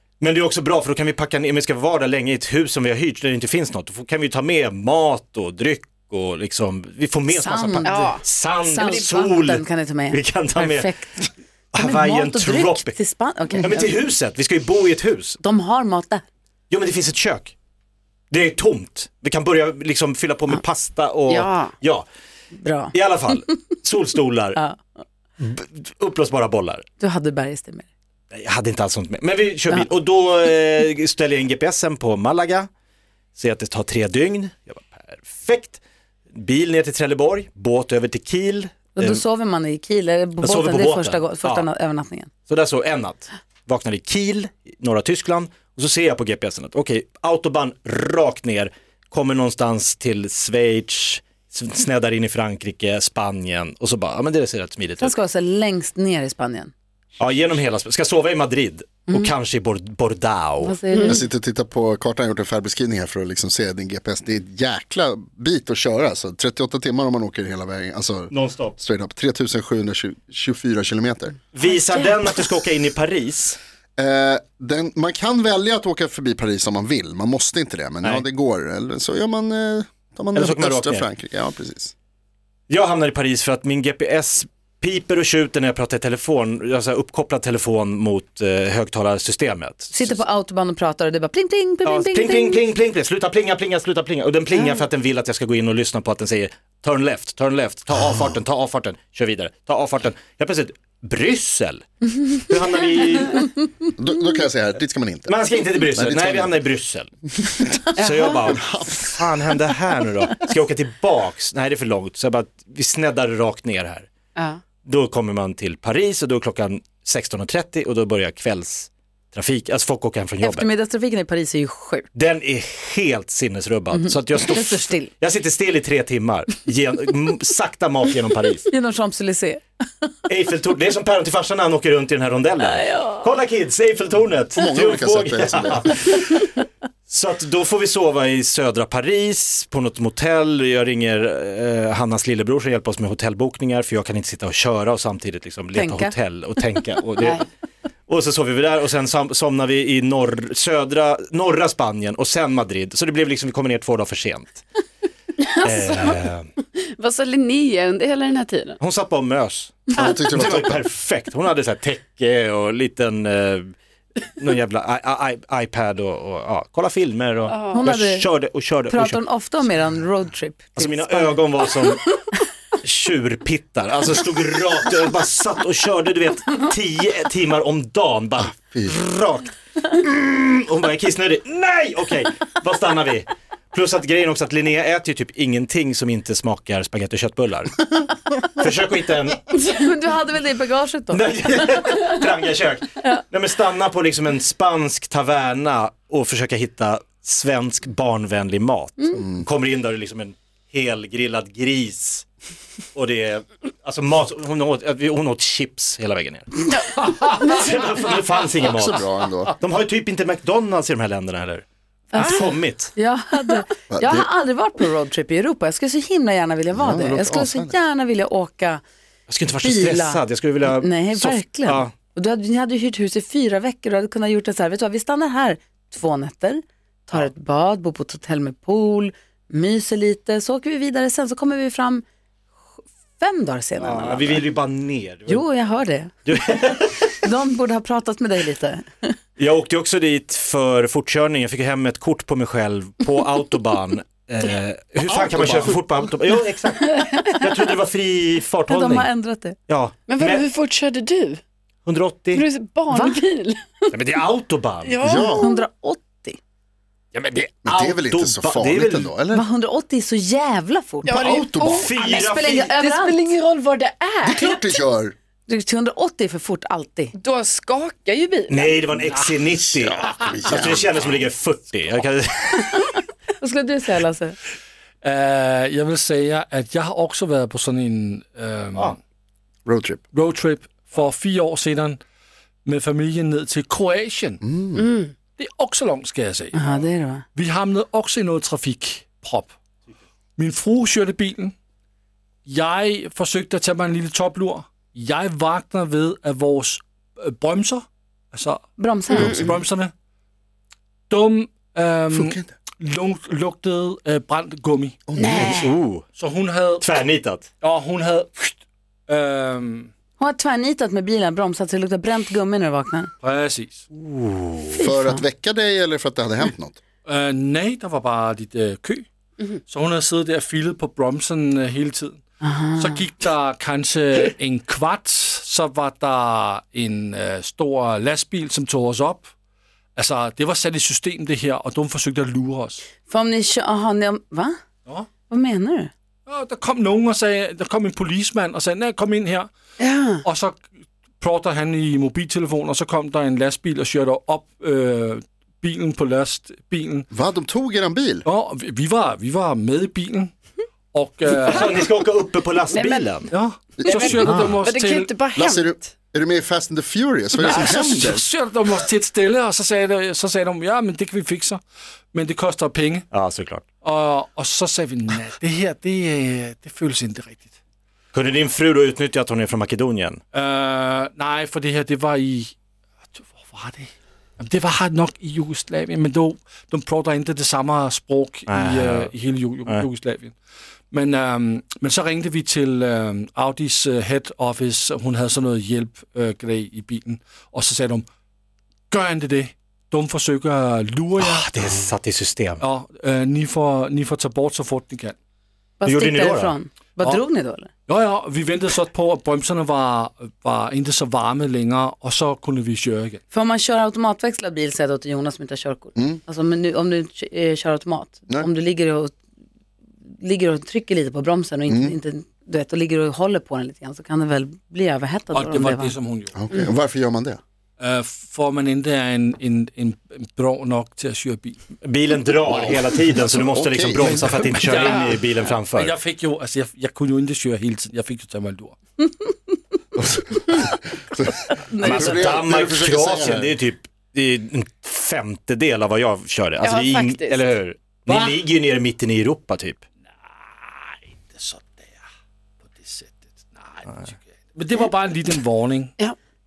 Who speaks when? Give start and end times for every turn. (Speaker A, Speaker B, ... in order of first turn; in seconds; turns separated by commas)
Speaker A: 0.2-10.9, Speaker B: 7.3-11.2, Speaker C: 7.8-8.2, Speaker A: 11.7-13.0, Speaker B: 11.8-13.9, Speaker A: 13.6-15.4, Speaker B: 15.4-16.2, Speaker A: 16.7-17.5, Speaker A: 18.3-22.0, Speaker C: 21.3-21.7, Speaker B: 22.5-23.4, Speaker A: 22.9-24.6, Speaker B: 24.5-24.8, Speaker A: 25.4-26.9, Speaker B: 27.0-27.9, Speaker A: 28.3-32.7, Speaker A: 33.3-35.8, Speaker A: 36.3-39.2, Speaker B: 38.9-42.3, Speaker A: 40.4-41.7, Speaker A: 42.5-55.1, Speaker B: 55.0-56.7, Speaker A: 57.2-60.8, Speaker B: 60.6-61.2, Speaker C: 60.9-61.2, Speaker D: 61.0-71.4, Speaker A: 68.3-68.8, Speaker A: 71.5-73.6, Speaker C: 71.7-72.1, Speaker D: 74.0-81.9, Speaker A: 80.3-81.1, Speaker A: 82.7-90.2, Speaker B: 89.9-92.6, Speaker A: 91.8-103.5, Speaker D: 97.9-98.3, Speaker D: 104.0-106.6, Speaker A: 105.3-107.1, Speaker D: 107.4-107.9, Speaker C: 108.0-108.5, Speaker A: 108.0-114.1, Speaker D: 108.5-109.7, Speaker A: 114.8-120.7, Speaker B: 120.4-122.0, Speaker A: 122.1-128.7, Speaker B: 123.9-125.1, Speaker B: 128.7-129.6, Speaker A: 130.3-147.4, Speaker B: 132.8-133.2, Speaker D: 134.6-136.0, Speaker B: 145.7-146.1, Speaker A: 148.1-154.6, Speaker C: 155.4-156.2, Speaker A: 155.6-156.5, Speaker C: 156.7-158.8, Speaker A: 158.8-163.7, Speaker D: 159.9-160.8, Speaker A: 164.3-169.2, Speaker C: 167.5-167.8, Speaker B: 167.7-168.3, Speaker B: 168.9-171.6, Speaker A: 170.8-172.0, Speaker A: 172.8-187.9, Speaker D: 178.5-178.9, Speaker A: 188.6-189.4, Speaker B: 189.5-192.0, Speaker A: 191.1-202.3, Speaker D: 199.1-199.4, Speaker A: 202.9-212.9, Speaker C: 207.0-207.7, Speaker D: 208.7-209.5, Speaker B: 212.1-218.8, Speaker D: 213.9-214.3, Speaker D: 216.7-217.7, Speaker A: 219.3-221.9, Speaker B: 219.6-232.0, Speaker B: 232.8-234.4, Speaker A: 233.8-235.4, Speaker B: 235.3-236.1, Speaker A: 236.2-237.1, Speaker B: 237.2-239.1, Speaker A: 239.4-249.1, Speaker D: 245.1-245.7, Speaker B: 248.7-249.6, Speaker A: 249.7-250.5, Speaker C: 250.1-251.4, Speaker A: 251.8-252.4, Speaker C: 252.3-253.9, Speaker B: 252.9-253.2, Speaker A: 253.9-255.0, Speaker C: 254.8-255.6, Speaker D: 255.0-255.5, Speaker B: 255.3-256.4, Speaker A: 257.2-259.1, Speaker D: 257.6-259.5, Speaker B: 259.3-261.1, Speaker C: 261.0-264.8, Speaker D: 261.1-261.9, Speaker A: 261.6-262.7, Speaker B: 262.0-263.2, Speaker D: 264.2-265.1, Speaker B: 265.5-267.1, Speaker C: 267.2-268.9, Speaker A: 268.5-272.9, Speaker D: 269.7-271.2, Speaker B: 273.4-274.4, Speaker E: 275.0-279.0, Speaker D: 279.6-280.0, Speaker E: 280.1-282.0, Speaker E: 282.6-284.4, Speaker D: 284.4-284.9, Speaker C: 284.8-285.1, Speaker E: 285.3-286.6, Speaker B: 286.5-287.2, Speaker E: 287.3-289.5, Speaker E: 290.4-291.5, Speaker E: 292.4-299.9, Speaker B: 298.8-299.3, Speaker C: 299.1-299.5, Speaker E: 301.1-305.0, Speaker D: 302.1-302.5, Speaker D: 305.1-305.7, Speaker C: 305.2-305.7, Speaker A: 305.3-306.0, Speaker E: 306.1-306.9, Speaker A: 306.8-307.5, Speaker E: 307.6-309.9, Speaker B: 310.2-313.1, Speaker E: 313.2-313.8, Speaker A: 313.9-314.8, Speaker B: 314.8-315.2, Speaker D: 314.8-316.8, Speaker E: 317.1-322.2, Speaker B: 322.4-323.1, Speaker E: 322.8-329.3, Speaker E: 329.9-332.8, Speaker B: 333.1-334.6, Speaker B: 335.3-335.9, Speaker E: 336.3-339.5, Speaker C: 339.8-340.2, Speaker E: 340.2-340.7, Speaker E: 341.2-347.1, Speaker D: 347.1-348.2, Speaker E: 348.2-350.3, Speaker E: 350.9-351.9, Speaker A: 351.4-353.3, Speaker C: 352.7-353.2, Speaker E: 353.3-355.1, Speaker D: 353.8-354.5, Speaker C: 353.8-355.9, Speaker D: 355.3-358.3, Speaker E: 357.4-361.6, Speaker E: 362.1-363.1, Speaker A: 363.1-363.6, Speaker E: 363.8-367.6, Speaker A: 368.1-370.2, Speaker E: 370.3-372.5, Speaker E: 373.1-380.4, Speaker A: 378.5-379.1, Speaker E: 380.9-388.0, Speaker E: 388.9-391.5, Speaker A: 391.2-392.6, Speaker E: 392.6-395.1, Speaker B: 395.8-397.7, Speaker A: 395.8-396.5, Speaker E: 397.9-403.2, Speaker B: 403.3-409.1, Speaker D: 405.9-406.2, Speaker B: 410.2-415.9, Speaker D: 411.7-411.9, Speaker E: 415.3-416.3, Speaker D: 416.3-417.4, Speaker E: 417.8-421.6, Speaker A: 421.8-425.9, Speaker D: 423.4-424.2, Speaker E: 423.9-428.8, Speaker D: 430.0-433.6, Speaker B: 431.7-432.2, Speaker A: 431.8-439.8, Speaker C: 436.6-437.5, Speaker E: 438.1-438.4, Speaker E: 440.2-442.1, Speaker E: 442.6-445.9